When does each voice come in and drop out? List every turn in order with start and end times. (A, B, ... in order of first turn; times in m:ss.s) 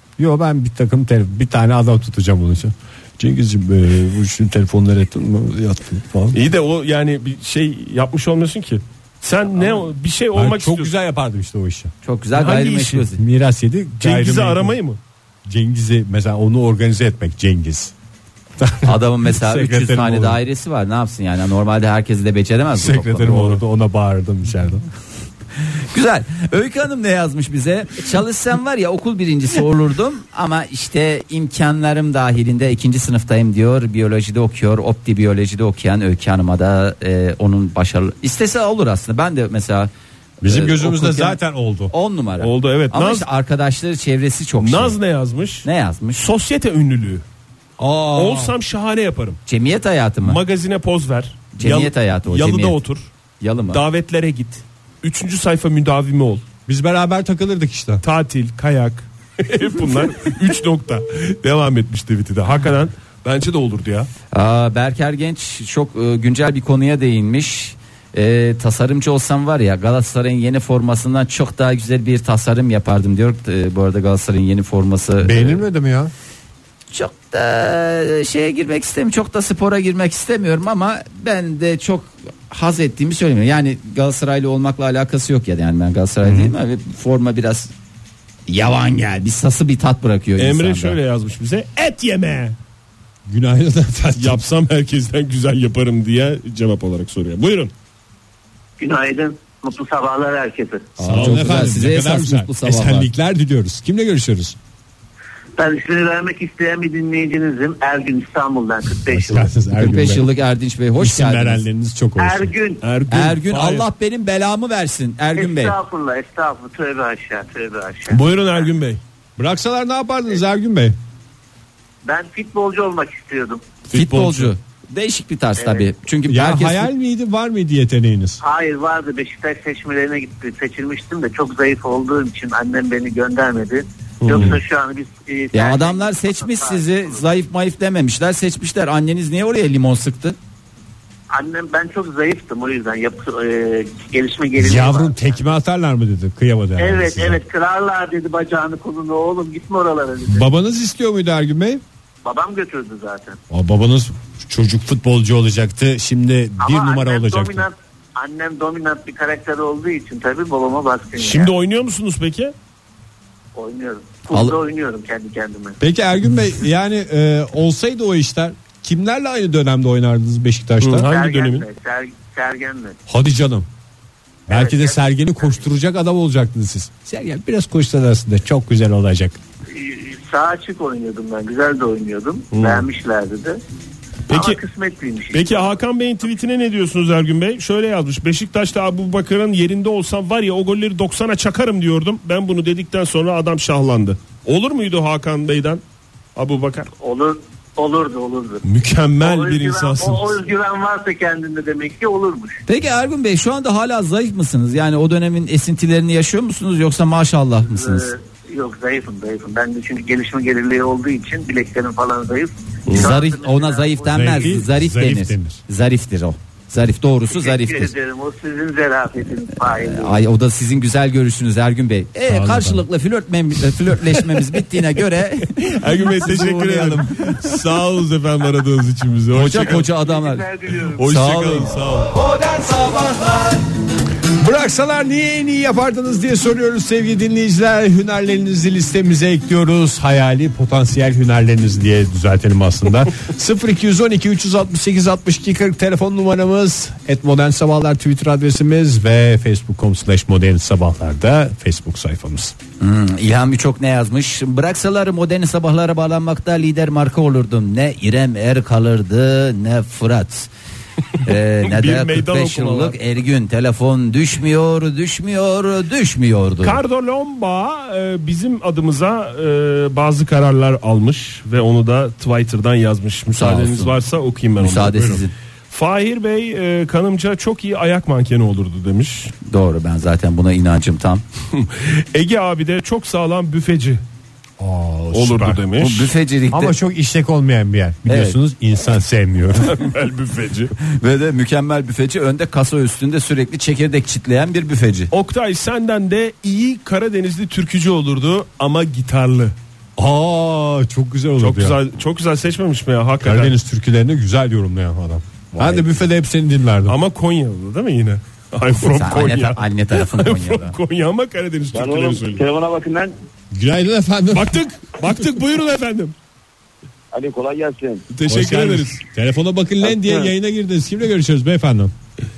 0:00.2-0:06.4 A
0:06.3-0:10.9 B
0:10.3-0:11.9 A
0:12.0-0:13.2 C
0:12.3-0:13.0 B
0:13.2-0:14.8 A
0:14.0-0:15.0 B
0:15.4-0:17.9 A
0:18.6-0:20.4 A
0:18.8-0:23.6 C
0:22.7-0:24.9 A
0:25.9-0:39.9 C
0:40.4-0:41.9 A
0:40.4-0:45.0 C
0:42.4-0:43.3 B
0:44.6-0:47.2 B
0:45.6-0:46.2 C
0:47.8-0:48.6 A
0:48.1-0:49.4 B
0:49.5-0:50.4 C
0:50.2-0:53.1 B
0:51.6-0:52.8 C
0:53.4-0:53.8 C
0:53.7-0:56.4 B
0:56.7-0:58.0 A
0:58.0-1:04.1 B
1:04.3-1:15.6 C
1:15.2-1:16.1 A
1:16.9-1:27.7 C
1:26.2-1:26.5 A
1:28.5-1:31.0 C
1:30.4-1:32.6 B
1:33.3-1:34.4 A
1:34.2-1:37.7 B
1:38.8-1:40.9 D
1:41.0-1:44.6 A
1:41.0-1:43.1 C
1:41.1-1:41.7 B
1:45.6-1:49.5 D
1:49.0-1:50.3 A
1:49.8-1:51.6 C
1:51.0-1:52.5 A
1:52.2-1:52.8 D
1:52.8-1:53.9 B
1:53.1-1:55.8 C
1:55.4-1:58.7 D
1:58.1-1:59.0 B
1:59.4-2:01.0 A
2:02.0-2:03.6 D
2:03.9-2:06.9 C
2:03.9-2:04.5 A
2:05.6-2:05.9 D
2:06.3-2:08.4 A
2:08.4-2:17.3 D
2:14.2-2:14.6 B
2:15.5-2:20.4 C
2:21.3-2:25.4 D
2:24.6-2:27.4 A
2:26.8-2:30.5 D
2:30.3-2:31.8 A
2:32.2-2:33.4 D
2:33.5-2:37.7 A
2:36.6-2:41.5 D
2:41.2-2:42.5 B
2:43.5-2:45.8 D
2:44.3-2:44.6 C
2:45.8-2:51.1 A
2:50.8-2:51.6 B
2:51.0-2:53.0 D
2:53.1-2:53.7 A
2:54.5-2:55.6 D
2:54.5-2:59.4 A
2:59.7-3:03.6 D
3:02.5-3:02.8 B
3:04.3-3:04.6 B
3:04.3-3:05.8 D
3:05.3-3:15.8 B
3:16.4-3:16.9 B
3:17.0-3:18.6 D
3:18.6-3:20.4 B
3:19.2-3:22.6 D
3:22.6-3:28.1 C
3:27.7-3:34.6 D
3:32.9-3:37.9 C
3:34.1-3:35.6 A
3:37.3-3:40.1 D
3:39.6-3:47.4 C
3:42.3-3:42.8 A
3:45.6-3:49.9 B
3:49.3-3:51.7 C
3:50.2-3:50.8 D
3:50.8-3:52.2 B
3:52.4-3:53.6 C
3:54.4-4:12.6 A
4:12.8-4:20.5 C
4:21.2-4:26.8 C
4:21.6-4:23.0 B
4:26.6-4:35.2 B
4:33.3-4:34.0 C
4:34.6-4:35.3 C
4:35.7-4:39.3 B
4:39.4-4:41.2 C
4:41.5-4:44.0 B
4:44.6-4:45.6 A
4:45.1-4:46.1 B
4:45.8-4:46.8 C
4:46.5-4:49.8 A
4:48.1-4:48.4 C
4:49.6-4:50.7 B
4:50.8-4:55.1 C
4:55.1-4:59.5 B
5:00.0-5:01.8 A
5:01.4-5:03.5 B
5:03.2-5:07.0 A
5:05.6-5:06.0 C
5:06.9-5:12.4 B
5:08.8-5:10.8 C
5:11.7-5:13.1 E
5:13.5-5:14.6 A
5:14.3-5:16.1 B
5:17.1-5:18.1 E
5:18.1-5:19.0 B
5:18.2-5:21.9 A
5:19.8-5:20.3 E